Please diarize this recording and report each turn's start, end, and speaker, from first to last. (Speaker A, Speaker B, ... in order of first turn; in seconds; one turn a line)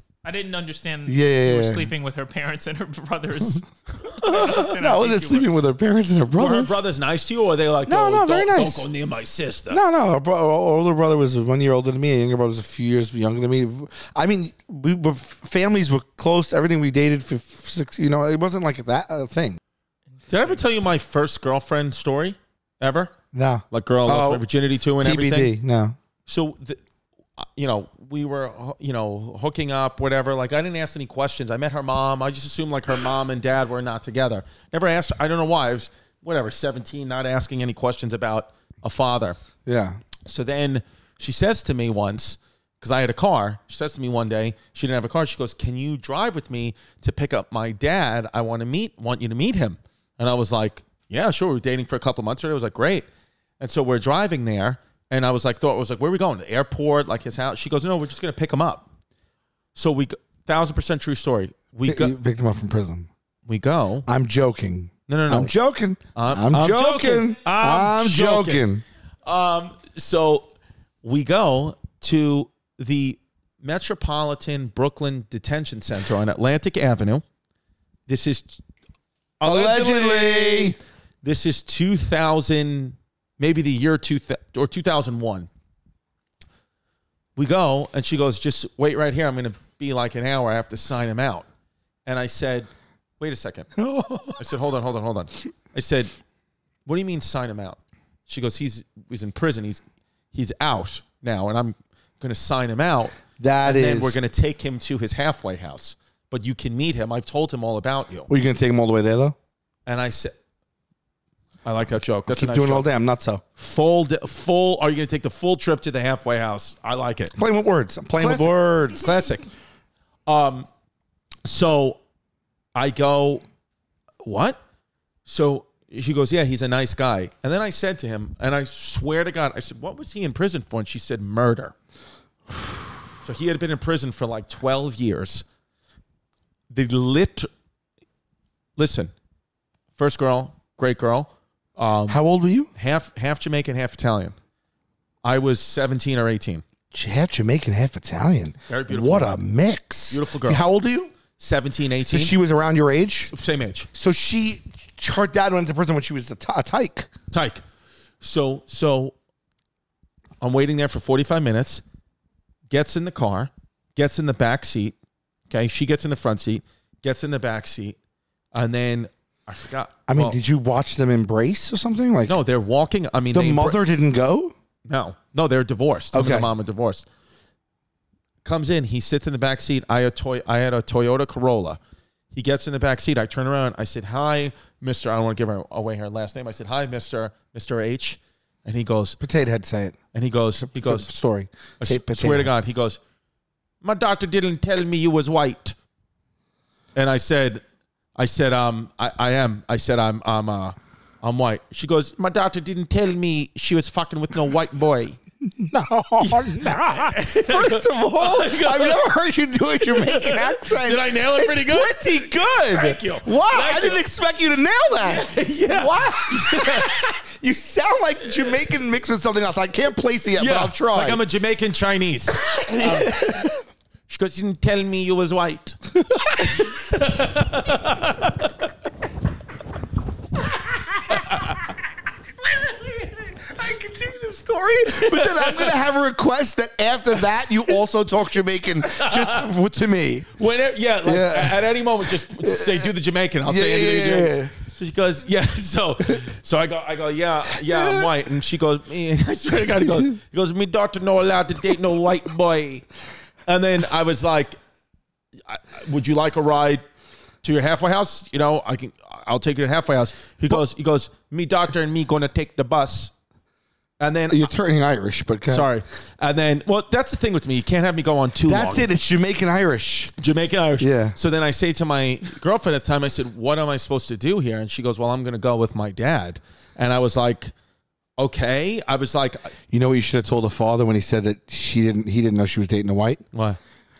Speaker A: 0.2-5.5
Speaker B: 1.1-1.9
Speaker B: 4.2-6.8
Speaker C: 6.4-9.8
Speaker B: 7.9-8.9
Speaker B: 9.7-19.6
Speaker A: 20.3-20.6
Speaker C: 20.3-23.1
Speaker B: 23.3-24.4
Speaker C: 23.7-25.5
Speaker B: 25.0-25.9
Speaker C: 26.3-26.8
Speaker C: 27.4-39.4
Speaker B: 39.6-40.0
Speaker C: 40.2-53.1
Speaker C: 53.6-58.9
Speaker C: 59.7-62.1
Speaker B: 61.9-63.1
Speaker C: 63.5-64.1
Speaker B: 64.0-68.8
Speaker C: 65.1-65.5
Speaker C: 66.1-68.6
Speaker C: 69.2-70.5
Speaker C: 71.0-77.2
Speaker C: 78.1-78.6
Speaker C: 79.4-85.5
Speaker B: 79.4-80.8
Speaker C: 87.3-91.5
Speaker C: 92.0-93.7
Speaker B: 93.8-94.4
Speaker C: 94.4-96.1
Speaker C: 96.8-99.8
Speaker C: 100.3-108.3
Speaker B: 103.4-104.2
Speaker B: 108.3-109.3
Speaker C: 109.8-110.3
Speaker C: 111.6-112.9
Speaker B: 112.3-113.4
Speaker C: 113.6-117.3
Speaker B: 117.3-119.2
Speaker C: 118.2-119.5
Speaker C: 120.3-120.7
Speaker C: 121.4-122.0
Speaker C: 122.7-123.4
Speaker C: 124.2-124.6
Speaker C: 125.2-131.7
Speaker C: 133.2-135.4
Speaker C: 136.7-137.5
Speaker C: 138.8-139.1
Speaker C: 140.0-142.2
Speaker B: 142.1-142.7
Speaker C: 142.7-144.3
Speaker C: 145.2-146.6
Speaker B: 146.9-151.1
Speaker C: 148.7-149.3
Speaker C: 150.1-150.6
Speaker C: 151.4-152.3
Speaker B: 152.1-153.3
Speaker C: 153.3-153.9
Speaker B: 153.9-157.1
Speaker C: 157.3-157.6
Speaker C: 158.2-159.1
Speaker C: 160.4-161.8
Speaker C: 162.7-164.9
Speaker C: 165.5-167.9
Speaker C: 168.5-170.4
Speaker B: 170.1-172.4
Speaker C: 172.2-173.8
Speaker B: 173.3-174.5
Speaker C: 174.9-177.0
Speaker B: 176.1-176.5
Speaker C: 178.4-181.8
Speaker C: 182.3-189.2
Speaker B: 189.2-190.0
Speaker C: 190.1-191.1
Speaker B: 190.6-192.5
Speaker C: 191.8-193.0
Speaker C: 193.8-195.7
Speaker C: 196.9-197.6
Speaker C: 198.2-205.2
Speaker B: 205.5-221.2
Speaker C: 206.2-209.1
Speaker C: 209.8-214.0
Speaker C: 215.0-217.1
Speaker C: 220.4-223.4
Speaker B: 222.4-223.6
Speaker C: 224.1-225.8
Speaker B: 226.0-226.6
Speaker C: 226.4-228.5
Speaker C: 231.1-231.6
Speaker B: 232.5-240.3
Speaker C: 234.9-235.8
Speaker C: 238.8-239.4
Speaker C: 240.4-252.8
Speaker B: 241.0-241.7
Speaker B: 242.4-242.9
Speaker B: 243.4-244.5
Speaker B: 247.6-248.1
Speaker C: 253.4-254.6
Speaker C: 255.5-256.8
Speaker C: 257.4-263.1
Speaker C: 264.0-264.5
Speaker B: 264.3-265.7
Speaker C: 265.5-268.9
Speaker B: 268.4-270.1
Speaker C: 270.2-277.5
Speaker B: 270.8-271.2
Speaker C: 278.2-279.5
Speaker B: 279.7-283.2
Speaker C: 283.3-283.6